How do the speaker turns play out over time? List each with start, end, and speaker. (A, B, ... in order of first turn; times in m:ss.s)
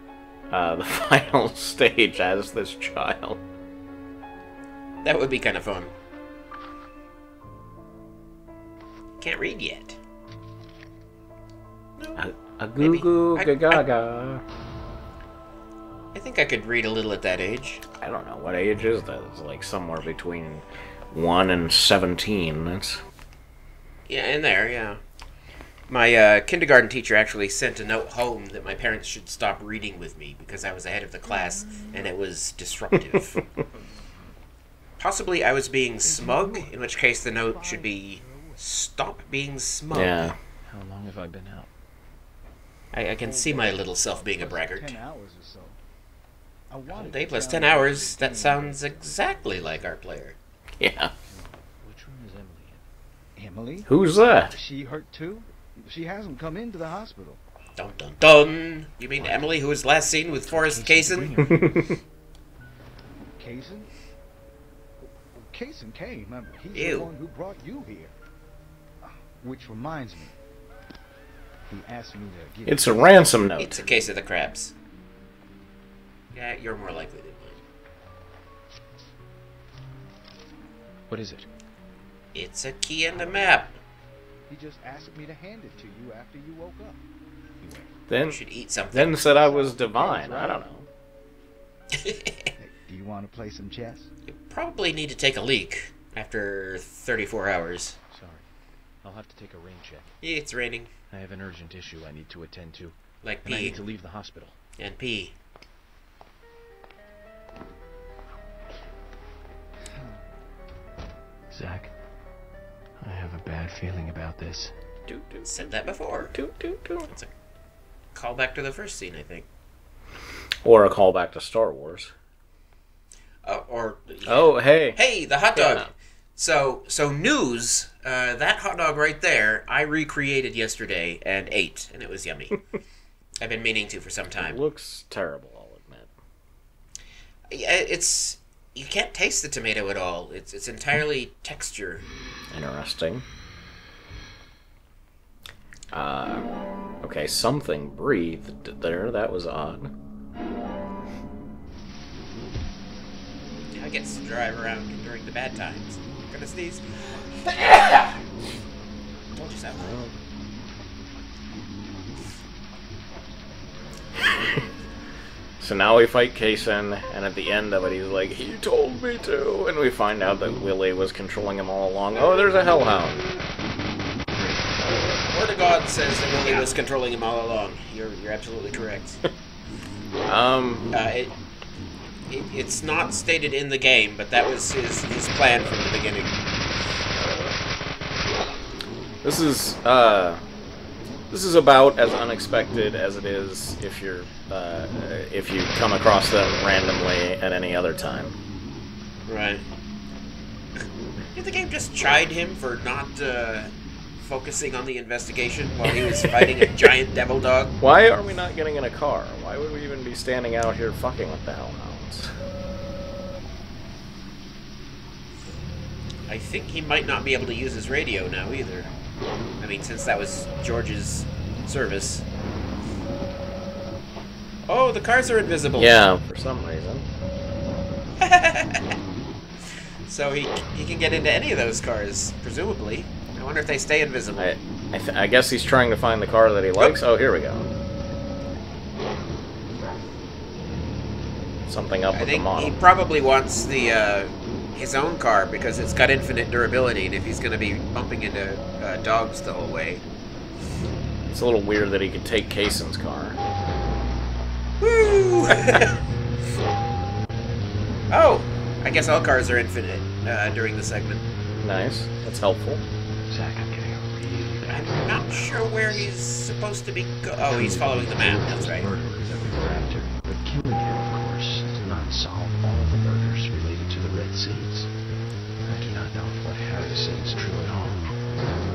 0:00.5-0:03.4 A
0:05.0-0:05.9 B
0:09.2-0:10.0 B
0:12.2-0:14.4 A
0:12.8-0:13.8 B
0:16.1-0:17.8 B
0:18.0-0:23.0 A
0:24.1-0:25.0 B
0:25.9-0:33.4 B
0:31.7-0:31.9 C
0:35.0-0:40.3 B
0:36.0-0:38.6 C
0:39.9-0:40.4 A
0:40.7-0:41.7 D
0:42.9-0:45.0 B
0:43.2-0:45.8 C
0:46.7-0:50.0 C
0:46.9-0:50.4 B
0:50.8-0:51.1 A
0:51.2-0:51.5 C
0:51.8-0:52.8 D
0:53.4-0:57.4 C
0:53.9-0:54.5 A
0:57.8-1:01.4 B
0:59.2-0:59.6 D
1:00.3-1:02.0 D
1:01.5-1:02.0 A
1:03.4-1:03.9 C
1:05.4-1:08.1 C
1:06.7-1:07.1 B
1:09.0-1:10.4 C
1:11.7-1:13.5 C
1:12.7-1:13.8 A
1:13.6-1:14.7 B
1:16.3-1:17.6 B
1:21.1-1:21.5 D
1:22.3-1:23.8 B
1:23.2-1:23.5 C
1:24.5-1:27.0 C
1:28.1-1:28.4 A
1:28.3-1:29.3 B
1:28.9-1:30.9 A
1:29.2-1:30.7 C
1:31.9-1:32.5 B
1:32.6-1:34.1 C
1:34.3-1:38.0 B
1:38.1-1:38.5 D
1:39.0-1:40.1 D
1:40.2-1:40.9 B
1:41.1-1:44.6 D
1:43.2-1:43.8 B
1:44.8-1:45.4 B
1:51.5-1:51.9 D
1:53.0-1:54.7 D
1:55.1-1:55.5 A
1:55.5-1:56.4 B
1:56.3-1:57.1 A
1:57.1-1:57.3 B
1:58.1-1:59.5 B
2:00.6-2:02.1 A
2:03.4-2:12.6 B
2:04.3-2:05.0 A
2:05.6-2:05.9 A
2:13.4-2:14.6 B
2:14.4-2:16.1 A
2:17.5-2:22.1 B
2:22.5-2:23.2 A
2:25.9-2:26.5 A
2:27.0-2:29.9 A
2:33.7-2:38.1 B
2:39.4-2:40.0 B
2:39.8-2:40.2 A
2:44.2-2:44.6 A
2:45.6-2:53.3 A
2:54.4-2:54.6 D
2:55.3-2:59.2 B
3:00.3-3:00.9 A
3:00.9-3:01.4 B
3:02.3-3:06.4 B
3:07.2-3:07.6 A
3:09.2-3:10.4 A
3:11.3-3:18.4 A
3:19.3-3:19.6 B
3:21.4-3:27.8 B
3:25.9-3:26.9 A
3:27.8-3:32.3 A
3:36.3-3:38.9 B
3:39.6-3:42.2 B
3:44.7-3:46.1 B
3:45.8-3:47.1 A
3:48.2-3:49.0 B
3:50.1-3:54.6 B
3:54.4-3:57.7 A
4:01.7-4:02.8 A
4:02.1-4:10.0 B
4:11.3-4:13.4 A
4:14.8-4:16.0 B
4:18.1-4:21.2 B
4:21.6-4:22.8 A
4:23.3-4:26.2 D
4:24.7-4:28.9 B
4:27.3-4:34.9 D
4:35.6-4:38.2 D